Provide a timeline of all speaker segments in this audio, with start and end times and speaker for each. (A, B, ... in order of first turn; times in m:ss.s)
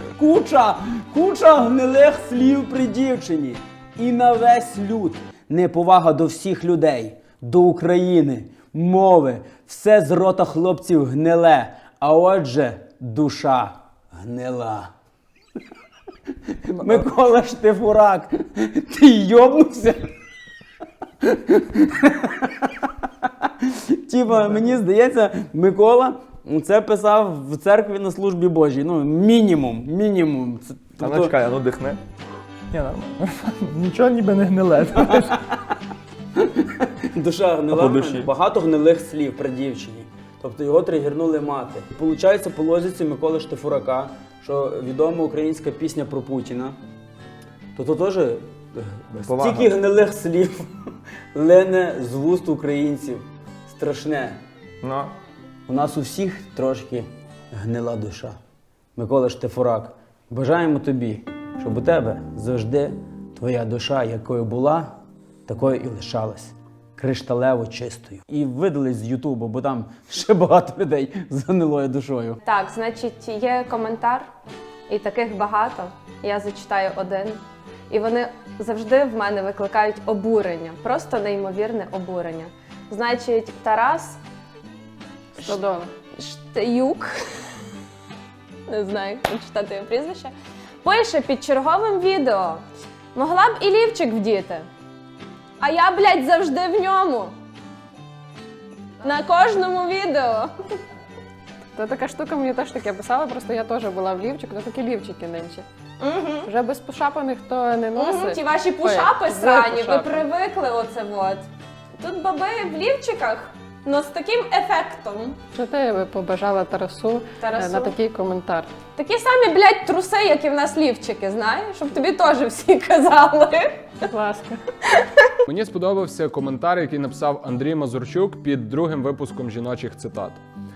0:00.2-0:14.9 A
0:16.6-0:20.1 A
0:16.7-0:17.0 B
0:21.2-0:31.3 A
0:24.4-0:24.7 B
0:31.0-0:32.0 B
0:32.7-0:35.4 B
0:36.4-0:46.8 A
0:37.7-0:38.3 B
0:47.7-0:54.4 A
0:49.2-0:49.7 B
0:54.8-0:55.1 B
0:55.7-0:58.4 A
0:59.0-1:04.9 A
1:05.5-1:12.4 A
1:12.4-1:14.3 C
1:14.9-1:24.2 C
1:25.4-1:25.9 D
1:26.2-1:27.1 C
1:28.7-1:34.7 C
1:35.6-1:37.3 C
1:39.0-1:40.8 C
1:41.7-1:45.6 D
1:46.0-1:46.5 C
1:46.4-1:50.2 D
1:48.0-1:55.4 C
1:55.6-1:58.7 D
1:57.4-1:57.9 C
1:58.9-2:03.9 C
2:04.1-2:04.6 D
2:05.5-2:10.4 E